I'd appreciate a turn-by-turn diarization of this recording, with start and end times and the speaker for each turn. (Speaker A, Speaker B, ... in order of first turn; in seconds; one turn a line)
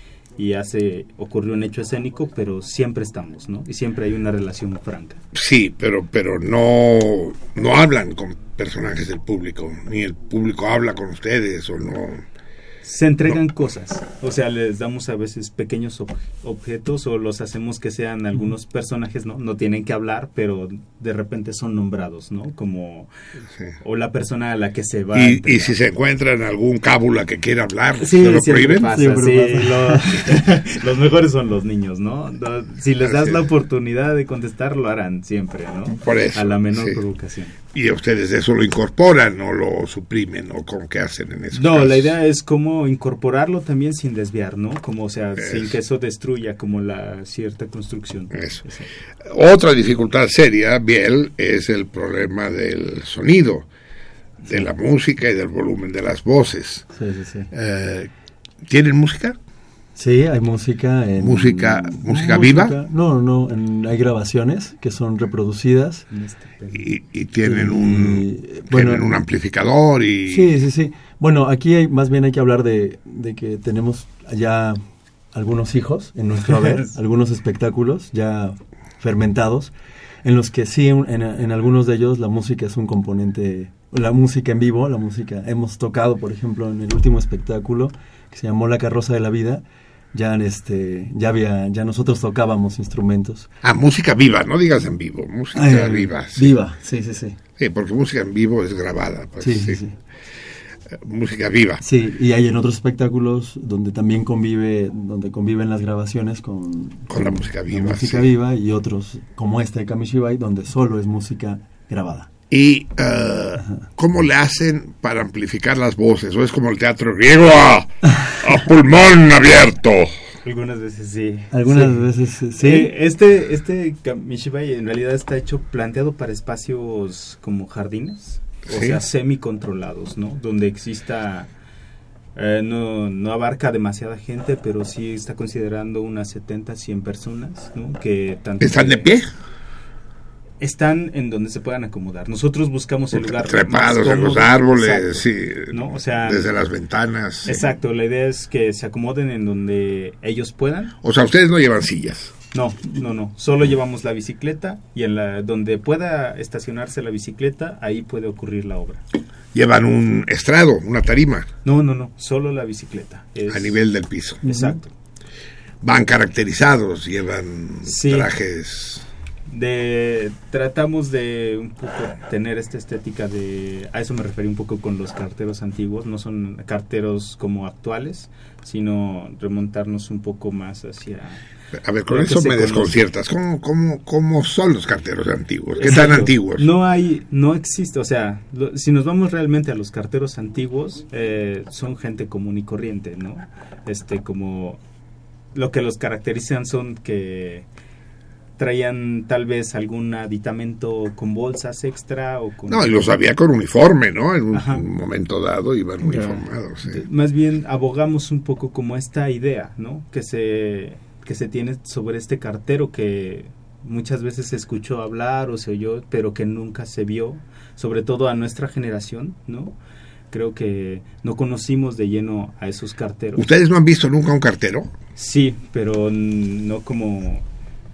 Speaker A: 0.4-5.2
Speaker B: 5.3-12.2
Speaker A: 12.8-23.1
Speaker A: 23.8-25.8
Speaker B: 25.1-28.9
Speaker A: 28.0-37.5
Speaker C: 28.9-30.0
Speaker B: 33.0-33.5
Speaker B: 36.0-37.0
Speaker B: 37.7-42.2
Speaker A: 41.5-48.9
Speaker B: 45.4-45.8
Speaker B: 48.3-48.6
Speaker B: 49.2-53.7
Speaker B: 54.4-56.9
Speaker C: 56.9-57.5
Speaker B: 57.5-58.1
Speaker B: 58.6-59.4
Speaker C: 60.0-66.1
Speaker B: 61.2-62.8
Speaker A: 66.1-66.8
Speaker B: 66.7-70.5
Speaker C: 67.5-69.1
Speaker C: 70.3-93.5
Speaker A: 76.4-76.9
Speaker B: 93.6-96.6
Speaker C: 95.5-97.4
Speaker B: 97.6-99.8
Speaker C: 99.4-99.9
Speaker B: 100.9-101.8
Speaker C: 101.8-112.3
Speaker B: 107.1-108.3
Speaker B: 112.5-120.1
Speaker A: 120.4-122.0
Speaker C: 121.5-122.9
Speaker A: 122.6-131.5
Speaker B: 128.7-129.0
Speaker A: 132.4-139.1
Speaker B: 138.6-139.3
Speaker A: 140.6-146.5
Speaker B: 143.1-147.7
Speaker A: 147.4-151.0
Speaker B: 151.0-152.4
Speaker A: 152.5-159.0
Speaker B: 159.5-161.5
Speaker A: 161.6-163.8
Speaker B: 163.5-164.5
Speaker A: 164.4-164.9
Speaker B: 165.8-169.1
Speaker A: 167.8-168.3
Speaker A: 169.5-181.4
Speaker B: 181.7-186.7
Speaker A: 182.1-183.0
Speaker A: 185.8-194.8
Speaker A: 195.5-197.7
Speaker A: 198.6-203.2
Speaker B: 202.7-207.1
Speaker A: 204.5-204.8
Speaker A: 206.8-219.8
Speaker A: 220.3-223.5
Speaker B: 223.4-224.9
Speaker A: 225.2-227.5